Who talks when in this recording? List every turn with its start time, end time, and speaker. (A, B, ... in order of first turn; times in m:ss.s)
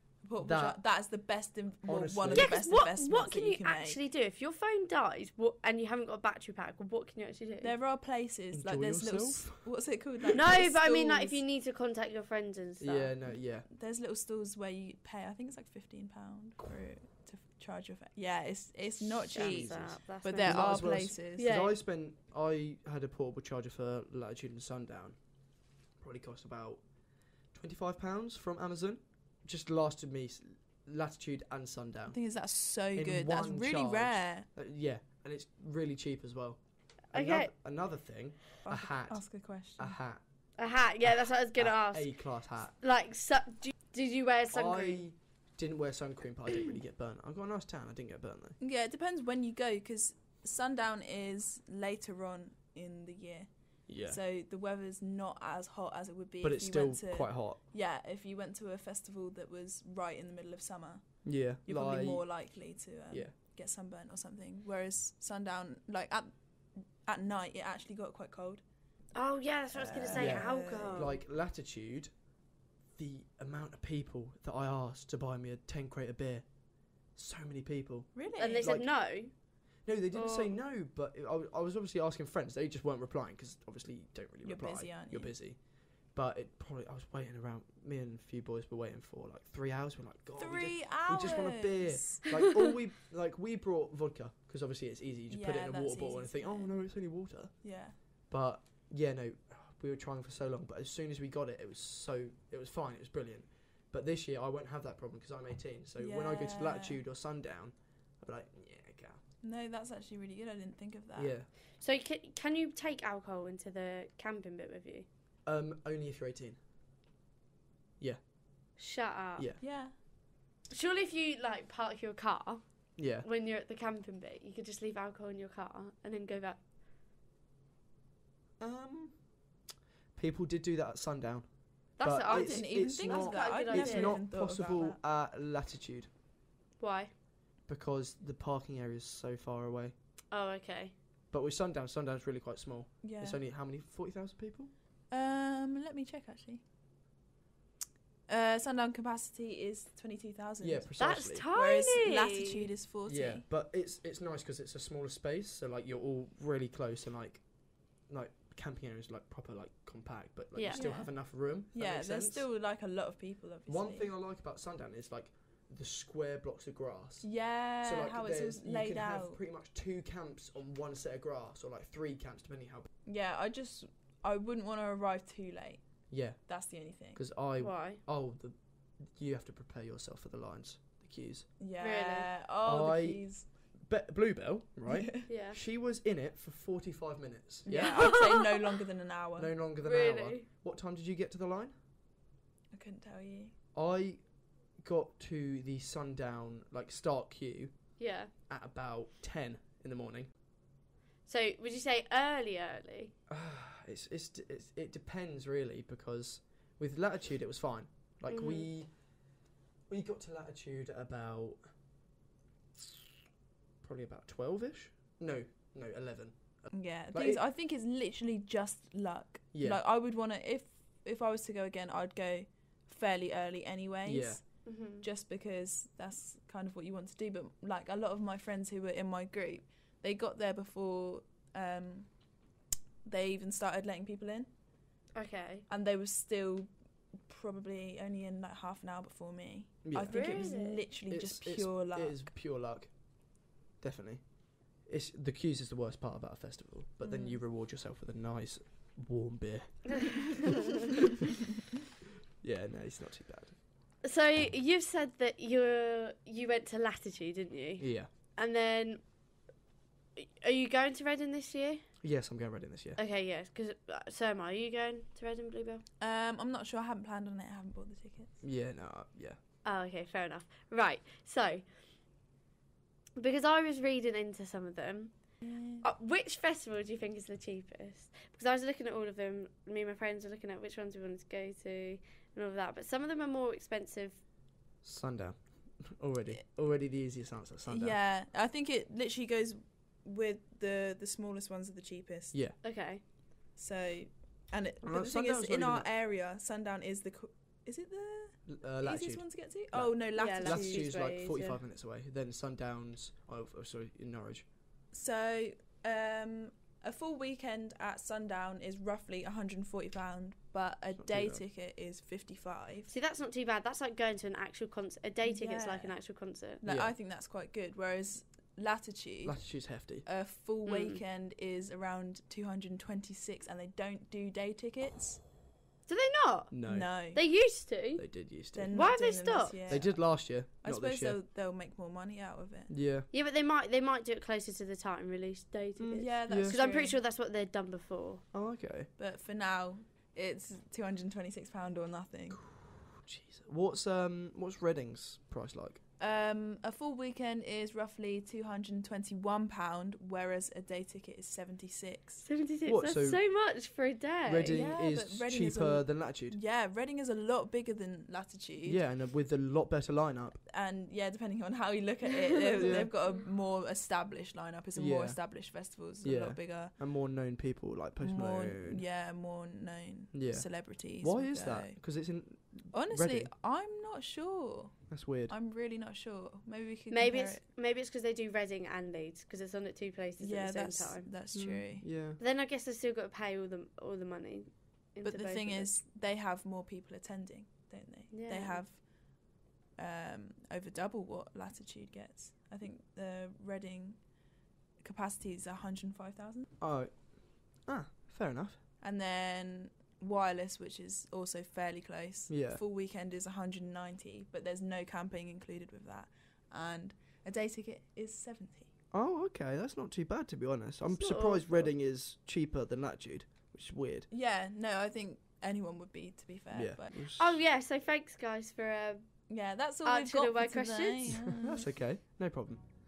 0:00.2-0:04.0 A
0:00.4-0:00.8 B
0:01.9-0:02.6 B
0:02.3-0:07.7 C
0:07.6-0:11.4 A
0:08.5-0:09.6 B
0:10.3-0:13.1 C
0:12.8-0:13.7 B
0:13.7-0:21.6 A
0:19.2-0:20.8 C
0:19.2-0:25.2 B
0:21.4-0:21.8 C
0:26.0-0:26.8 B
0:27.5-0:32.2 B
0:32.1-0:34.5 A
0:33.0-0:36.6 B
0:37.1-0:37.5 C
0:37.1-0:39.2 B
0:38.6-0:40.0 A
0:39.8-0:40.2 B
0:40.6-0:42.2 C
0:41.0-0:42.8 B
0:42.8-0:45.0 C
0:44.5-0:48.6 B
0:48.6-0:53.5 A
0:53.9-0:54.2 B
0:54.0-1:01.1 A
0:56.4-0:57.6 B
1:01.2-1:02.2 B
1:01.6-1:06.3 A
1:07.0-1:08.6 A
1:09.2-1:11.2 C
1:09.7-1:11.2 A
1:10.1-1:12.1 B
1:13.0-1:16.5 B
1:17.2-1:18.9 B
1:18.2-1:18.8 A
1:18.4-1:19.3 C
1:19.9-1:25.6 B
1:20.1-1:20.6 C
1:24.4-1:25.3 A
1:26.1-1:37.5 B
1:30.4-1:32.3 A
1:35.3-1:36.7 A
1:37.6-1:38.0 A
1:38.3-1:49.2 B
1:46.0-1:47.0 A
1:49.4-1:51.4 A
1:51.2-1:51.5 B
1:51.8-1:55.1 C
1:55.4-1:56.6 B
1:58.8-1:59.5 C
1:59.6-1:59.9 A
2:00.7-2:06.6 C
2:03.0-2:03.3 B
2:08.6-2:09.2 B
2:10.2-2:11.4 B
2:12.0-2:14.2 C
2:12.0-2:16.1 B
2:12.2-2:15.0 A
2:16.8-2:17.1 C
2:17.7-2:19.9 B
2:20.3-2:20.9 C
2:21.3-2:24.7 B
2:23.0-2:23.4 A
2:25.1-2:26.6 A
2:28.3-2:30.9 A
2:30.6-2:31.5 B
2:31.0-2:32.7 C
2:31.5-2:33.4 A
2:33.1-2:37.4 B
2:38.1-2:42.5 B
2:40.6-2:40.9 C
2:40.7-2:41.1 A
2:41.7-2:44.1 A
2:43.7-2:52.9 B
2:47.2-2:49.4 A
2:53.0-2:55.8 A
2:56.1-2:56.4 B
2:56.5-2:57.2 A
2:57.2-2:58.6 B
2:57.6-2:58.0 C
2:59.2-3:01.5 B
3:01.6-3:03.5 A
3:01.8-3:02.3 C
3:02.6-3:03.2 B
3:03.9-3:08.1 B
3:04.9-3:05.3 A
3:05.3-3:05.6 C
3:07.6-3:09.5 A
3:07.7-3:08.5 C
3:09.4-3:11.7 B
3:09.8-3:10.5 C
3:12.7-3:13.5 A
3:13.8-3:14.2 B
3:14.8-3:17.7 B
3:18.0-3:18.3 C
3:18.5-3:20.3 B
3:21.3-3:23.1 C
3:23.3-3:28.9 B
3:28.3-3:28.7 C
3:29.9-3:31.6 B
3:33.8-3:37.4 B
3:36.7-3:44.5 A
3:39.5-3:39.8 B
3:44.0-3:44.4 B
3:44.7-3:45.0 C
3:45.0-3:52.1 A
3:53.0-3:54.5 A
3:55.2-3:55.6 C
3:55.7-3:56.7 A
3:57.2-4:02.2 A
3:59.8-4:00.4 B
4:00.0-4:00.8 C
4:01.1-4:02.9 B
4:03.8-4:04.2 B
4:04.9-4:10.4 B
4:07.0-4:07.4 A
4:10.0-4:10.9 C
4:12.4-4:13.6 B
4:14.0-4:19.0 C
4:17.8-4:18.1 B
4:20.2-4:21.8 C
4:22.0-4:23.0 B
4:23.0-4:25.8 C
4:26.0-4:28.4 A
4:28.4-4:29.4 B
4:29.6-4:31.6 C
4:33.2-4:35.1 C
4:35.4-4:35.9 A
4:35.8-4:44.2 C
4:44.8-4:48.0 B
4:47.7-4:52.4 A
4:52.6-4:53.0 C
4:53.6-5:00.9 A
4:54.8-4:55.9 B
4:58.5-5:04.4 B
5:00.2-5:01.6 C
5:04.9-5:12.9 A
5:11.0-5:11.4 B
5:12.9-5:16.6 C
5:15.2-5:15.9 A
5:16.6-5:19.4 A
5:16.6-5:16.9 B
5:19.2-5:20.0 B
5:20.0-5:25.2 A
5:20.7-5:21.0 C
5:25.9-5:28.1 C
5:26.5-5:26.9 B
5:26.7-5:27.2 A
5:28.0-5:28.8 B
5:28.5-5:30.0 A
5:28.7-5:29.7 C
5:29.7-5:31.2 B
5:30.6-5:32.7 A
5:32.7-5:33.1 B
5:33.1-5:38.2 C
5:35.8-5:36.6 B
5:36.0-5:37.0 A
5:38.3-5:38.9 B
5:39.0-5:42.4 A
5:42.3-5:45.8 B
5:46.0-5:52.2 A
5:52.2-5:54.6 C
5:52.7-5:53.2 B
5:54.3-5:56.4 B
5:54.5-5:58.8 A
5:58.6-6:00.4 B
6:00.4-6:06.7 A
6:02.6-6:02.9 B
6:04.8-6:05.2 B
6:06.0-6:08.8 B
6:08.0-6:11.8 A
6:10.1-6:13.3 B
6:12.7-6:17.4 A
6:14.9-6:15.3 B
6:16.9-6:21.1 C
6:20.2-6:21.9 A
6:21.3-6:22.2 B
6:22.2-6:25.7 C
6:25.0-6:28.8 A
6:28.1-6:28.6 C
6:29.8-6:34.0 A
6:34.8-6:36.5 A
6:36.6-6:37.0 B
6:37.7-6:38.6 B
6:38.8-6:48.7 A
6:42.3-6:42.6 B
6:48.9-6:54.1 B
6:51.0-6:51.7 C
6:54.1-6:56.9 A
6:56.5-6:57.4 B
6:57.2-6:59.0 C
6:59.3-7:01.7 A
6:59.8-7:01.2 C
7:01.1-7:02.6 B